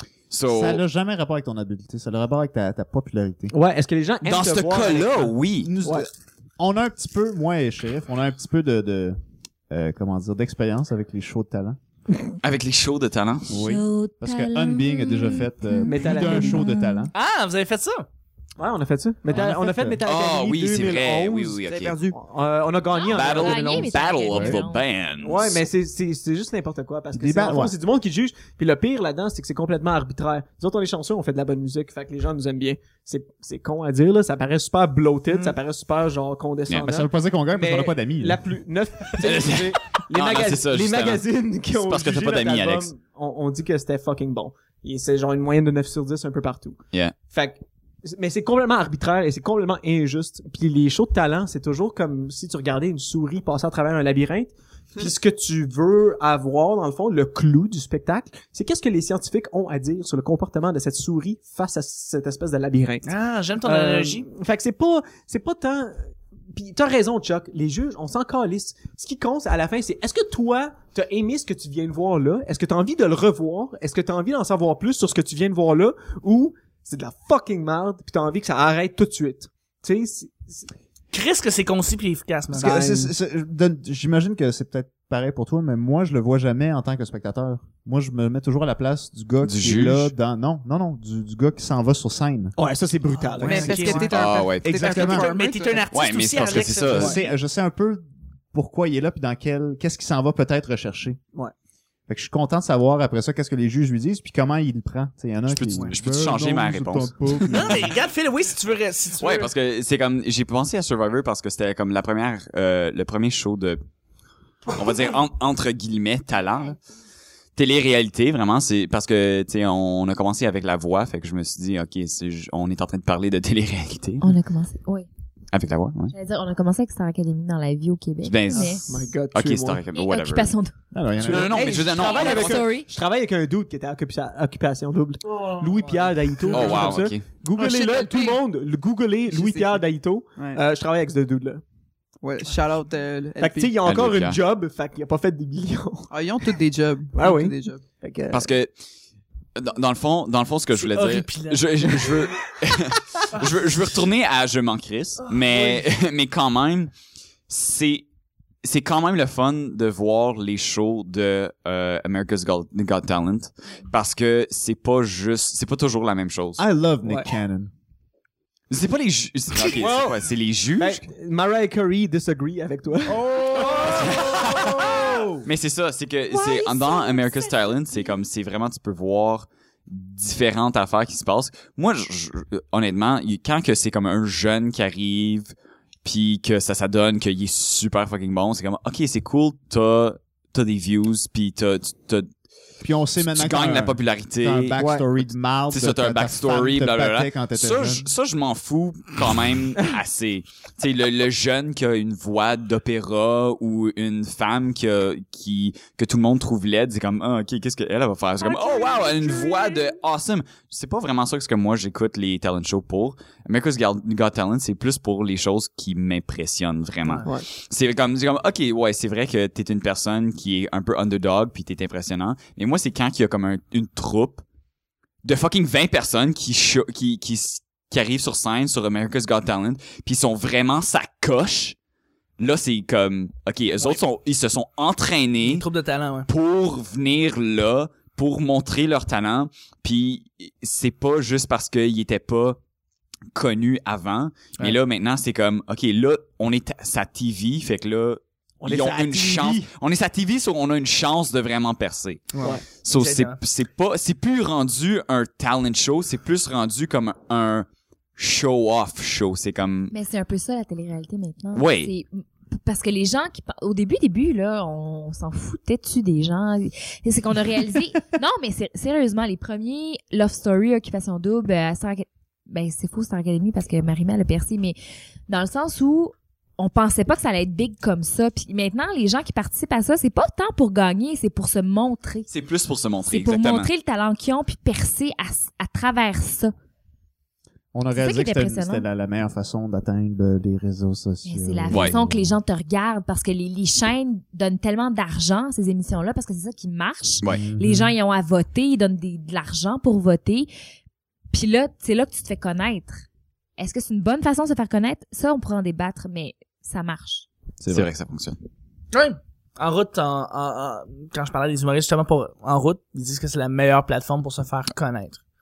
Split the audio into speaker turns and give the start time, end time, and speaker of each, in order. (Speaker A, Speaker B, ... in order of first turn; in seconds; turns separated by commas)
Speaker A: 0.3-0.8, Speaker B: 0.5-3.5, Speaker C: 3.5-6.1, Speaker A: 4.2-5.7, Speaker B: 5.6-9.2, Speaker B: 9.7-11.8, Speaker A: 12.4-13.5, Speaker B: 13.5-17.1, Speaker D: 13.5-17.1, Speaker C: 15.9-16.7, Speaker E: 17.1-18.1, Speaker C: 18.6-24.0, Speaker B: 19.3-20.0, Speaker A: 20.1-22.2, Speaker D: 22.9-24.9, Speaker A: 23.1-25.6, Speaker B: 24.3-24.6, Speaker C: 25.2-63.1, Speaker B: 27.1-27.8, Speaker E: 35.3-35.6, Speaker A: 36.7-37.0, Speaker B: 36.8-38.4, Speaker A: 39.1-42.9, Speaker E: 63.0-64.3, Speaker C: 63.6-80.7, Speaker E: 81.1-82.8, Speaker C: 82.5-83.1, Speaker B: 82.5-92.6, Speaker A: 89.4-90.1, Speaker C: 92.6-94.2, Speaker E: 93.1-97.3, Speaker F: 93.4-95.9, Speaker A: 94.1-95.1, Speaker B: 94.6-95.3, Speaker A: 95.9-97.2, Speaker B: 96.9-101.2, Speaker B: 102.1-107.9, Speaker A: 105.5-107.8, Speaker E: 105.7-106.0, Speaker E: 107.5-109.5, Speaker A: 109.2-113.8, Speaker A: 114.7-116.8, Speaker A: 117.6-124.3, Speaker D: 124.2-125.1, Speaker A: 125.5-126.1, Speaker D: 126.1-128.8, Speaker A: 128.2-130.5, Speaker C: 128.5-129.8, Speaker D: 129.9-130.7, Speaker B: 130.9-131.7, Speaker C: 131.2-141.6, Speaker A: 131.2-132.7, Speaker D: 132.0-132.9, Speaker E: 135.5-136.6, Speaker A: 136.5-137.3, Speaker D: 137.6-138.3, Speaker F: 137.8-138.4, Speaker F: 139.3-140.6, Speaker F: 142.2-143.8, Speaker C: 143.4-146.1, Speaker A: 143.8-144.4, Speaker F: 146.1-147.8, Speaker C: 147.1-148.5, Speaker A: 148.3-148.8, Speaker A: 149.6-156.9, Speaker E: 150.7-152.1, Speaker C: 155.5-155.8, Speaker A: 157.5-158.1, Speaker A: 158.6-166.6, Speaker B: 166.6-167.7, Speaker C: 167.0-167.3, Speaker A: 168.7-171.0, Speaker C: 169.6-175.4, Speaker B: 173.1-175.2, Speaker A: 173.9-174.9, Speaker A: 175.4-185.5, Speaker F: 176.4-177.2, Speaker A: 186.0-192.3, Speaker B: 192.8-198.1, Speaker A: 193.2-194.8, Speaker C: 194.8-195.1, Speaker A: 195.7-224.4, Speaker A: 225.2-231.8, Speaker A: 232.4-235.7, Speaker E: 235.4-236.3, Speaker A: 236.3-242.6, Speaker A: 243.3-252.3, Speaker C: 248.6-249.7, Speaker E: 252.3-253.4, Speaker C: 252.4-252.6, Speaker A: 252.8-259.9, Speaker D: 259.9-282.3, Speaker A: 261.5-261.9, Speaker A: 282.3-283.7, Speaker D: 283.1-286.5, Speaker B: 287.7-292.4, Speaker D: 287.9-288.9, Speaker D: 291.2-300.5, Speaker A: 291.7-292.0, Speaker B: 297.3-297.9, Speaker D: 301.3-303.1, Speaker D: 303.6-307.3, Speaker A: 307.6-308.4, Speaker E: 308.9-315.2